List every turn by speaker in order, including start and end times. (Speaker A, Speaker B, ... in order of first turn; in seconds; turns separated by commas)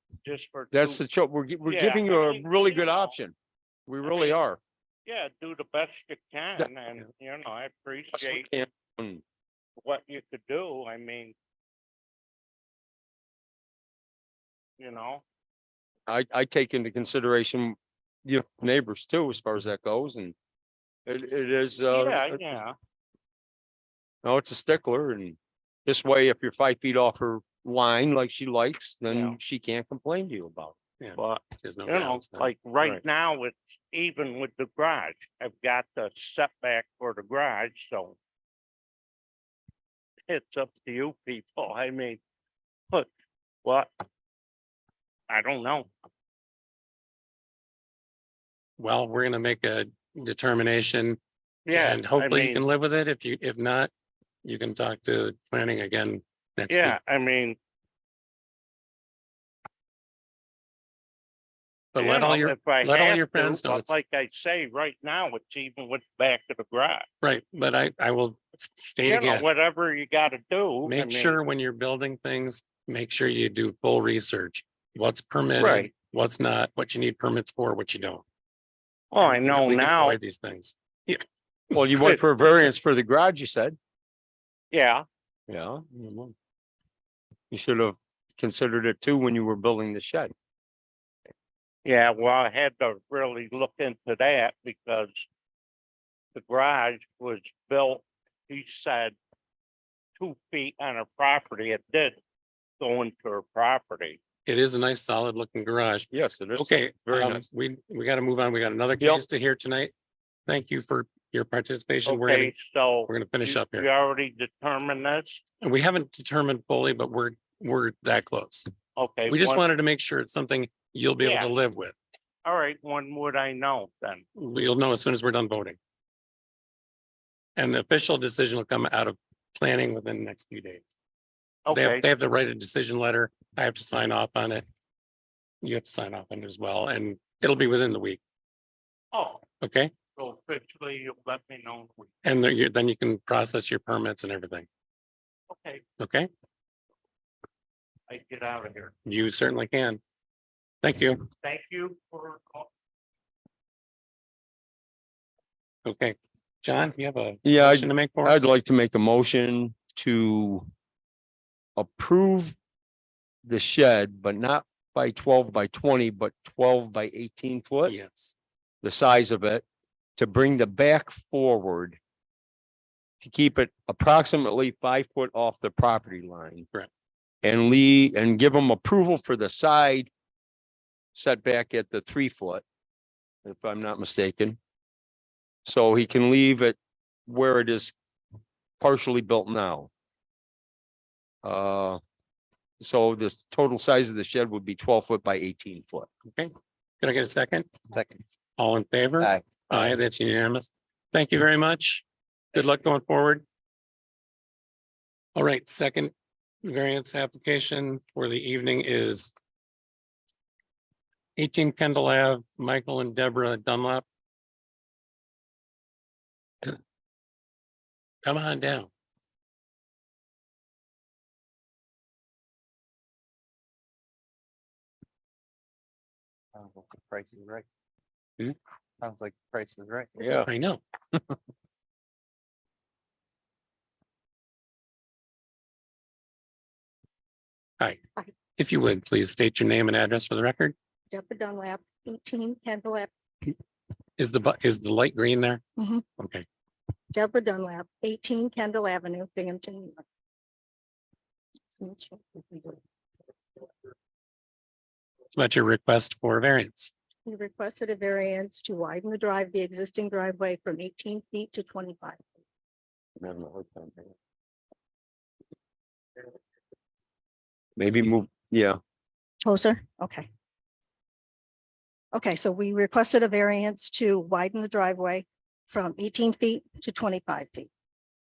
Speaker A: 0.2-1.0, Speaker B: 0.7-3.4, Speaker A: 1.7-3.2, Speaker B: 3.9-4.6, Speaker A: 4.0-4.4, Speaker A: 5.1-8.5, Speaker B: 8.2-9.2, Speaker A: 9.8-11.3, Speaker A: 14.8-15.2, Speaker B: 16.1-20.3, Speaker B: 21.1-22.4, Speaker A: 21.9-22.8, Speaker B: 24.2-30.8, Speaker A: 29.1-29.4, Speaker C: 31.0-33.0, Speaker A: 31.2-38.2, Speaker A: 40.3-42.2, Speaker A: 43.6-43.9, Speaker A: 45.3-45.9, Speaker C: 48.8-51.2, Speaker A: 51.7-52.7, Speaker C: 51.7-53.9, Speaker C: 54.4-57.0, Speaker A: 56.7-57.6, Speaker C: 61.9-63.9, Speaker A: 62.0-67.1, Speaker C: 67.2-69.5, Speaker A: 69.0-71.4, Speaker C: 70.8-78.2, Speaker B: 75.6-75.9, Speaker A: 79.1-80.2, Speaker C: 79.2-81.2, Speaker B: 81.7-83.8, Speaker A: 84.7-85.0, Speaker B: 85.5-86.3, Speaker B: 87.5-90.3, Speaker A: 91.8-95.3, Speaker A: 96.3-99.2, Speaker A: 100.2-102.2, Speaker A: 102.8-104.2, Speaker C: 104.5-109.9, Speaker B: 106.1-107.4, Speaker C: 110.5-112.5, Speaker A: 112.1-115.4, Speaker C: 113.1-113.9, Speaker C: 115.6-118.7, Speaker A: 119.0-119.6, Speaker C: 119.3-122.0, Speaker A: 121.2-121.5, Speaker A: 122.5-124.2, Speaker C: 124.3-125.8, Speaker C: 127.6-130.9, Speaker A: 131.7-132.1, Speaker C: 131.7-134.6, Speaker C: 135.6-138.2, Speaker A: 139.1-139.4, Speaker C: 139.6-139.9, Speaker A: 140.2-142.1, Speaker C: 142.2-144.7, Speaker A: 145.5-145.8, Speaker C: 146.0-146.3, Speaker A: 148.1-148.9, Speaker C: 149.1-150.0, Speaker C: 150.8-151.3, Speaker A: 151.4-152.7, Speaker C: 155.8-158.4, Speaker B: 157.4-160.7, Speaker B: 161.8-162.6, Speaker B: 163.4-167.9, Speaker C: 167.9-168.3, Speaker B: 168.8-169.6, Speaker B: 170.2-172.0, Speaker B: 173.2-176.7, Speaker B: 177.4-180.1, Speaker B: 181.2-182.6, Speaker B: 183.4-184.6, Speaker B: 185.7-186.8, Speaker B: 187.3-187.9, Speaker B: 188.8-189.9, Speaker B: 191.4-192.0, Speaker B: 192.8-196.1, Speaker C: 196.3-197.7, Speaker C: 198.6-203.4, Speaker C: 205.3-206.1, Speaker C: 206.6-209.3, Speaker C: 211.4-214.1, Speaker C: 218.2-218.9, Speaker D: 226.6-227.6, Speaker D: 229.0-230.1, Speaker B: 230.2-230.5, Speaker C: 230.5-230.8, Speaker C: 238.6-240.8, Speaker E: 241.1-243.1, Speaker C: 244.2-245.6, Speaker E: 245.8-246.0, Speaker C: 246.2-246.4, Speaker E: 247.1-250.0, Speaker E: 251.7-252.8, Speaker C: 255.3-256.9, Speaker E: 257.3-262.2, Speaker B: 263.2-264.0, Speaker B: 267.8-268.8, Speaker E: 269.4-270.3, Speaker E: 272.1-277.7